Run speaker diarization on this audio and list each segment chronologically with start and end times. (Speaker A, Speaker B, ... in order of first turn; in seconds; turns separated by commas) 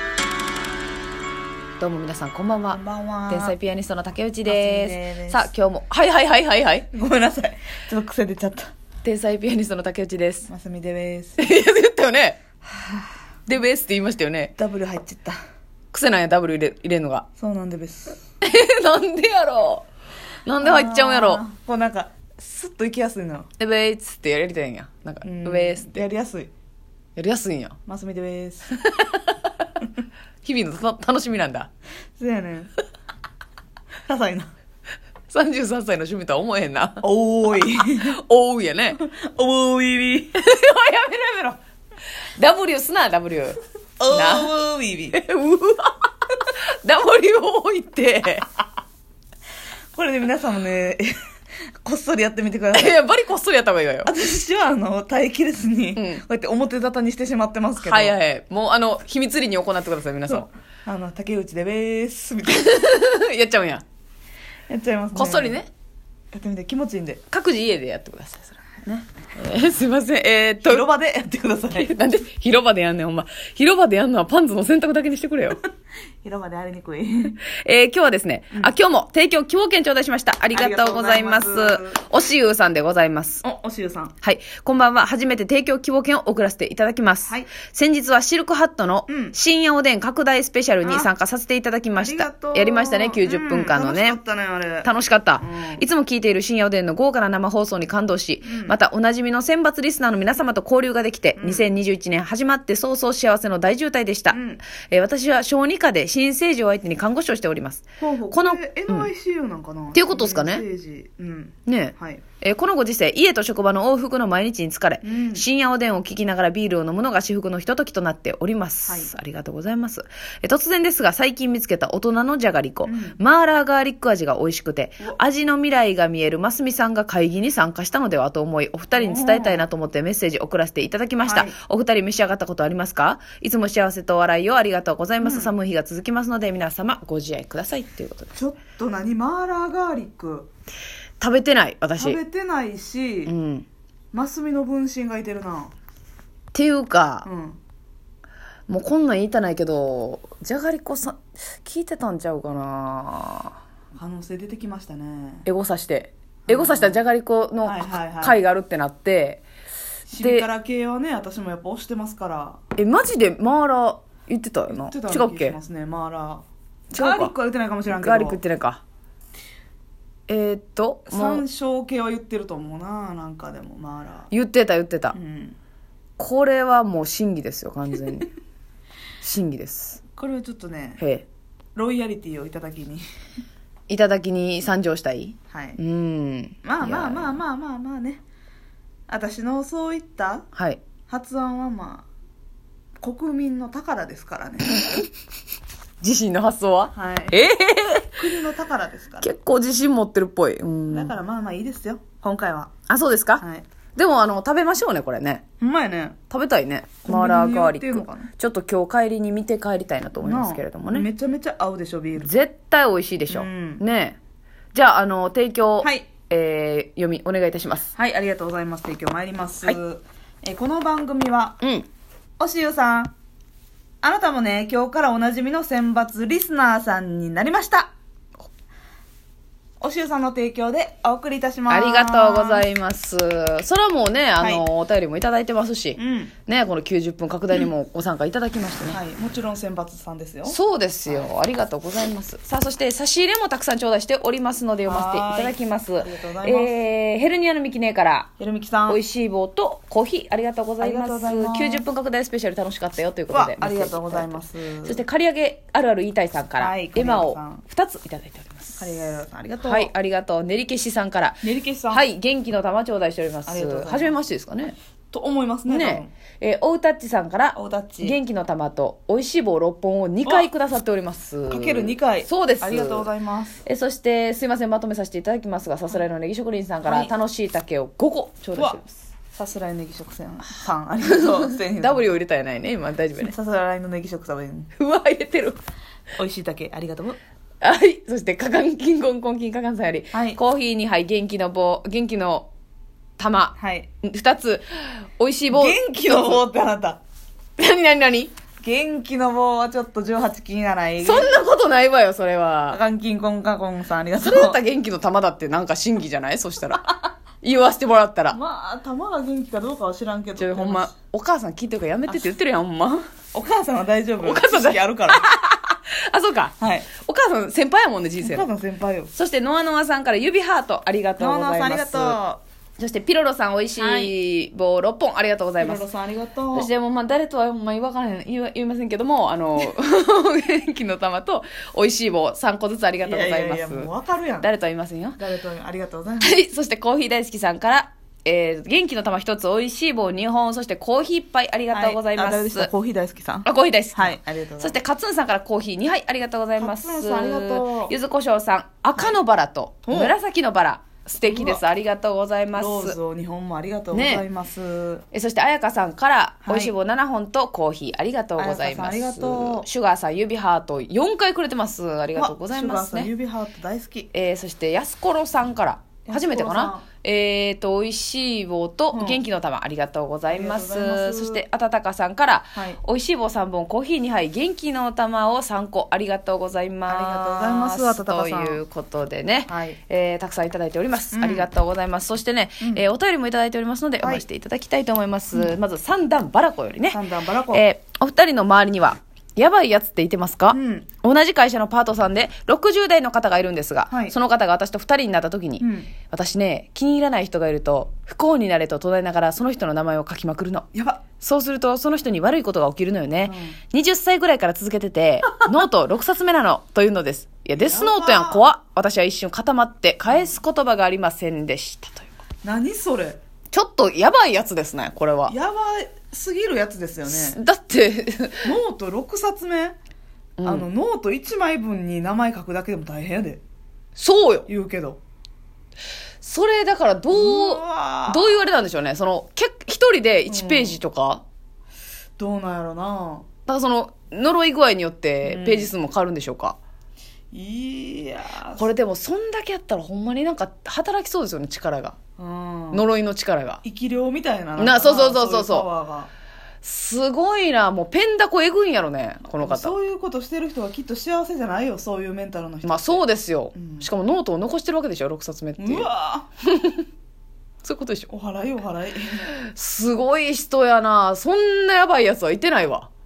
Speaker A: 1.8-6.9, Speaker B: 2.7-3.5, Speaker B: 4.4-5.5, Speaker B: 6.9-8.7, Speaker A: 9.0-10.5, Speaker B: 10.5-11.4, Speaker A: 11.4-12.4, Speaker A: 13.5-14.5, Speaker B: 14.6-15.4, Speaker A: 15.9-17.2, Speaker B: 17.4-18.2, Speaker A: 18.4-19.9, Speaker A: 20.4-21.4, Speaker B: 20.6-23.5, Speaker A: 23.6-26.0, Speaker B: 25.2-26.5, Speaker A: 27.1-27.8, Speaker B: 27.9-28.7, Speaker A: 28.8-29.5, Speaker A: 30.4-31.7, Speaker B: 32.2-32.7, Speaker B: 34.0-34.5, Speaker A: 35.3-37.1, Speaker B: 37.0-38.1, Speaker A: 37.9-39.0, Speaker B: 39.0-40.4, Speaker A: 40.4-41.6, Speaker A: 42.4-43.6, Speaker B: 44.0-45.2, Speaker A: 44.1-44.5, Speaker A: 45.1-48.5, Speaker B: 49.9-51.1, Speaker B: 51.8-53.0, Speaker A: 52.7-54.1, Speaker B: 54.0-58.2, Speaker A: 56.0-56.2, Speaker A: 57.8-60.5, Speaker B: 60.3-62.8, Speaker A: 62.5-63.8, Speaker B: 64.7-65.6, Speaker A: 65.1-65.7, Speaker B: 66.3-67.2, Speaker A: 67.3-70.8, Speaker B: 70.6-71.9, Speaker A: 71.7-75.6, Speaker B: 76.2-77.4, Speaker A: 77.5-83.4, Speaker B: 80.5-82.0, Speaker B: 83.4-84.1, Speaker A: 84.2-94.2, Speaker B: 89.1-89.3, Speaker B: 90.8-91.1, Speaker B: 92.0-94.9, Speaker A: 94.8-109.1, Speaker B: 95.4-95.8, Speaker B: 98.4-98.8, Speaker B: 101.4-101.7, Speaker B: 104.3-104.6, Speaker B: 108.0-112.2, Speaker A: 109.9-110.7, Speaker A: 111.7-138.3, Speaker B: 115.0-115.4, Speaker B: 118.9-119.1, Speaker B: 122.8-123.2, Speaker B: 128.9-129.7, Speaker B: 131.2-131.6, Speaker B: 135.2-135.5, Speaker B: 138.3-140.5, Speaker A: 141.2-142.2, Speaker B: 142.0-143.3, Speaker A: 143.2-143.7, Speaker B: 144.1-145.7, Speaker A: 146.5-147.3, Speaker B: 147.2-147.6, Speaker A: 148.7-153.5, Speaker B: 153.9-155.4, Speaker A: 155.4-159.4, Speaker B: 156.5-157.0, Speaker B: 157.6-158.4, Speaker B: 160.1-162.6, Speaker A: 160.2-160.5, Speaker A: 162.8-165.6, Speaker B: 164.7-168.4, Speaker A: 166.9-167.3, Speaker A: 167.9-168.8, Speaker A: 170.3-171.4, Speaker B: 171.1-174.3, Speaker A: 174.3-175.2, Speaker B: 175.1-175.6, Speaker A: 176.2-178.3, Speaker A: 179.2-180.0, Speaker B: 180.2-181.0, Speaker A: 181.0-181.2, Speaker B: 181.7-183.0, Speaker A: 183.9-187.4, Speaker B: 185.5-185.8, Speaker B: 186.6-188.2, Speaker B: 189.1-190.5, Speaker A: 190.5-190.8, Speaker B: 191.1-192.1, Speaker B: 193.0-194.8, Speaker A: 196.0-198.2, Speaker B: 196.9-197.4, Speaker B: 198.2-199.3, Speaker A: 199.2-201.1, Speaker B: 200.9-202.7, Speaker A: 202.9-203.4, Speaker B: 203.4-203.6, Speaker A: 203.9-205.4, Speaker B: 205.6-206.2, Speaker A: 206.3-211.1, Speaker B: 207.0-208.3, Speaker B: 210.2-212.3, Speaker A: 212.2-214.2, Speaker B: 213.3-213.8, Speaker A: 214.7-217.9, Speaker B: 215.8-216.1, Speaker B: 217.9-221.6, Speaker A: 221.6-221.9, Speaker B: 222.4-223.1, Speaker B: 224.0-227.9, Speaker B: 229.8-232.6, Speaker A: 231.7-239.0, Speaker B: 234.4-234.7, Speaker B: 236.0-236.3, Speaker B: 238.9-241.3, Speaker A: 240.4-248.3, Speaker B: 244.8-246.7, Speaker B: 248.4-249.0, Speaker A: 248.9-258.9, Speaker B: 250.8-251.8, Speaker B: 253.3-255.0, Speaker B: 256.6-257.6, Speaker B: 258.8-259.9, Speaker A: 259.6-264.8, Speaker B: 261.4-262.0, Speaker B: 263.4-264.2, Speaker B: 265.1-266.1, Speaker A: 265.7-273.1, Speaker B: 267.5-268.2, Speaker B: 270.2-270.5, Speaker B: 271.5-273.6, Speaker A: 273.6-279.0, Speaker B: 276.8-277.1, Speaker B: 278.5-278.8, Speaker B: 279.3-282.1, Speaker A: 281.0-283.3, Speaker B: 283.1-284.7, Speaker A: 284.8-285.6, Speaker B: 286.2-287.2, Speaker A: 287.6-292.5, Speaker B: 290.1-290.4, Speaker A: 293.2-296.4, Speaker B: 293.6-293.9, Speaker B: 295.5-297.0, Speaker A: 297.6-298.3, Speaker B: 298.6-301.4, Speaker A: 301.0-302.8, Speaker B: 302.7-304.6, Speaker A: 304.2-308.4, Speaker B: 308.3-310.9, Speaker A: 310.4-313.1, Speaker B: 313.3-315.2, Speaker A: 314.2-318.5, Speaker B: 316.6-316.9, Speaker B: 318.2-319.1, Speaker A: 319.1-322.2, Speaker B: 321.2-322.4, Speaker A: 322.8-325.8, Speaker B: 323.8-324.1, Speaker B: 325.6-326.7, Speaker A: 326.5-333.9, Speaker B: 333.0-334.5, Speaker A: 334.4-335.2, Speaker B: 335.2-336.3, Speaker A: 336.2-342.7, Speaker B: 341.7-344.8, Speaker A: 343.4-352.9, Speaker B: 346.6-347.9, Speaker B: 349.9-350.1, Speaker B: 351.2-351.6, Speaker B: 352.5-355.0, Speaker A: 353.9-354.2, Speaker A: 355.1-363.1, Speaker B: 356.4-356.7, Speaker B: 358.4-359.6, Speaker B: 362.1-364.1, Speaker A: 364.1-400.7, Speaker B: 366.1-366.8, Speaker B: 368.9-369.2, Speaker B: 370.3-371.4, Speaker B: 376.9-378.6, Speaker B: 379.5-379.8, Speaker B: 381.1-381.5, Speaker B: 384.0-384.2, Speaker B: 386.9-387.6, Speaker B: 390.5-390.9, Speaker B: 393.9-394.1, Speaker B: 395.6-395.9, Speaker B: 400.7-401.0, Speaker A: 401.2-412.1, Speaker B: 403.2-403.6, Speaker B: 407.5-408.4, Speaker B: 412.4-413.2, Speaker A: 413.5-415.3, Speaker B: 415.3-417.4, Speaker A: 417.1-418.5, Speaker B: 418.4-419.8, Speaker A: 420.4-420.7, Speaker B: 420.4-423.4, Speaker A: 423.9-424.5, Speaker B: 424.5-425.0, Speaker A: 426.2-431.2, Speaker B: 427.1-428.4, Speaker B: 430.3-430.8, Speaker B: 432.2-433.2, Speaker A: 433.5-436.6, Speaker B: 435.2-435.7, Speaker B: 437.3-438.7, Speaker A: 438.6-441.9, Speaker B: 442.2-442.8, Speaker A: 442.7-443.6, Speaker B: 443.6-446.1, Speaker A: 444.6-445.7, Speaker A: 446.6-449.8, Speaker B: 449.4-453.0, Speaker A: 452.6-455.9, Speaker B: 453.5-453.9, Speaker B: 455.6-456.3, Speaker A: 456.4-456.8, Speaker A: 457.6-458.1, Speaker B: 458.1-459.3, Speaker A: 459.3-462.9